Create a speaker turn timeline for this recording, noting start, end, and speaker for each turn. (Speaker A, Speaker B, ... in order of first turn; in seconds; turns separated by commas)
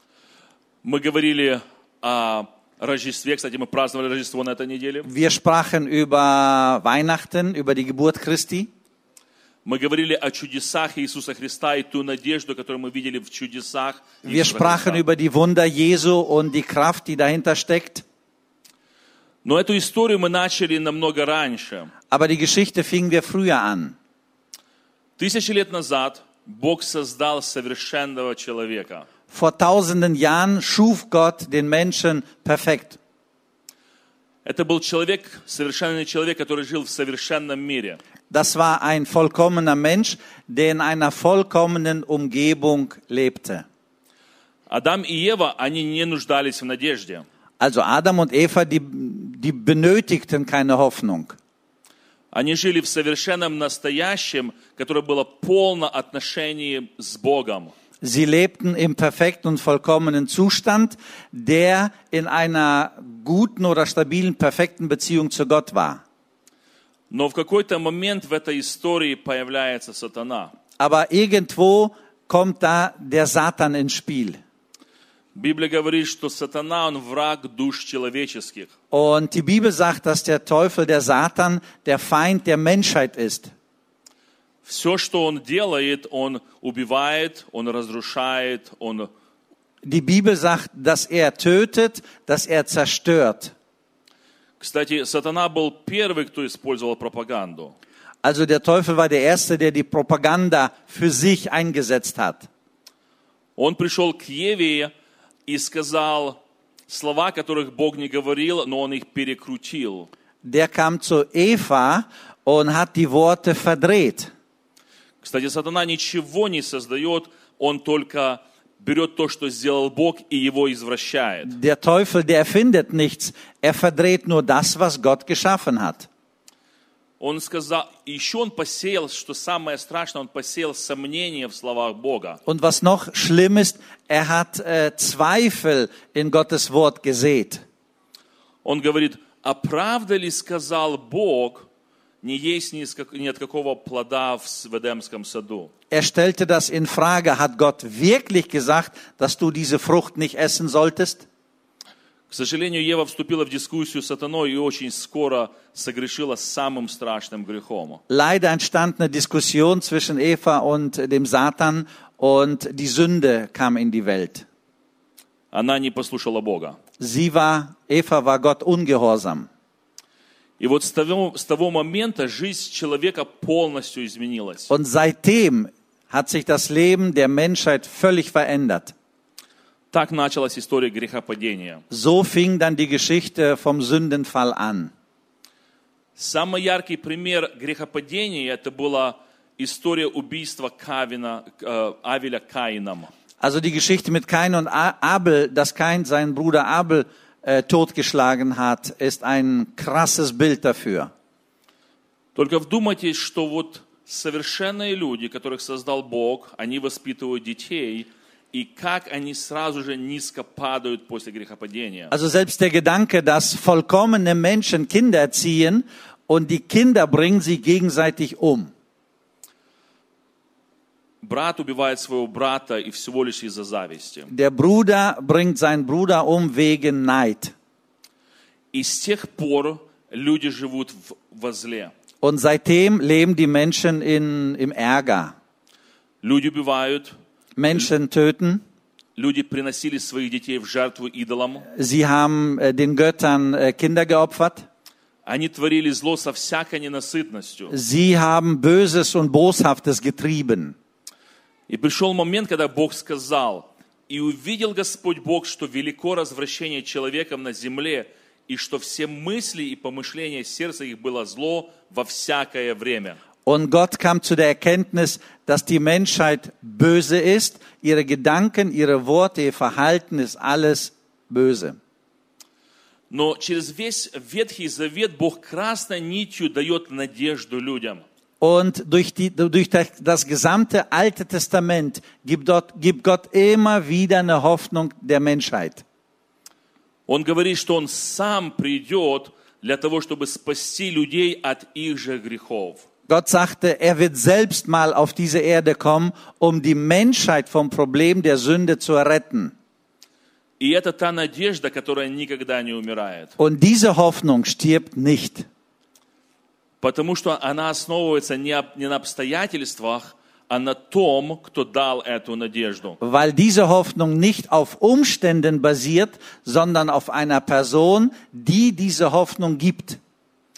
Speaker A: 0.8-5.1, Speaker B: 5.0-8.7, Speaker A: 9.7-15.0, Speaker B: 14.2-18.0, Speaker A: 19.4-21.9, Speaker B: 22.1-23.9, Speaker A: 25.2-29.1, Speaker B: 29.3-33.0, Speaker A: 34.5-38.0, Speaker B: 38.3-43.6, Speaker A: 44.7-47.2, Speaker B: 47.6-51.4, Speaker A: 52.3-57.7, Speaker B: 58.0-66.0, Speaker A: 67.1-70.5, Speaker B: 70.8-74.4, Speaker A: 75.3-78.7, Speaker B: 78.9-83.5, Speaker A: 84.6-89.1, Speaker B: 89.8-93.5, Speaker A: 94.6-97.8, Speaker B: 98.2-102.5, Speaker A: 103.6-104.9, Speaker A: 105.5-110.1, Speaker B: 110.4-114.3, Speaker A: 115.2-121.6, Speaker B: 121.5-126.1, Speaker A: 127.2-132.4, Speaker B: 132.5-137.6, Speaker A: 138.6-141.7, Speaker A: 142.2-145.7, Speaker B: 145.9-151.2, Speaker A: 152.3-158.0, Speaker B: 158.1-164.5, Speaker A: 165.5-166.8, Speaker B: 167.0-169.5, Speaker A: 170.6-174.7, Speaker B: 174.7-178.9, Speaker A: 179.9-181.8, Speaker B: 181.9-184.9, Speaker A: 186.2-193.1, Speaker B: 193.4-201.1, Speaker A: 202.3-212.1, Speaker B: 212.1-218.7, Speaker A: 221.2-224.3, Speaker B: 224.3-227.5, Speaker A: 228.7-231.9, Speaker B: 232.2-235.3, Speaker A: 236.2-237.1, Speaker B: 237.6-238.6, Speaker A: 239.2-241.7, Speaker B: 241.7-244.7, Speaker A: 245.3-247.7, Speaker B: 247.7-250.8, Speaker A: 251.7-263.2, Speaker B: 263.5-271.8, Speaker A: 273.1-278.0, Speaker B: 278.4-285.8, Speaker A: 287.1-292.8, Speaker B: 293.1-299.5, Speaker A: 300.6-303.4, Speaker B: 303.4-305.5, Speaker A: 306.8-313.0, Speaker B: 313.0-320.0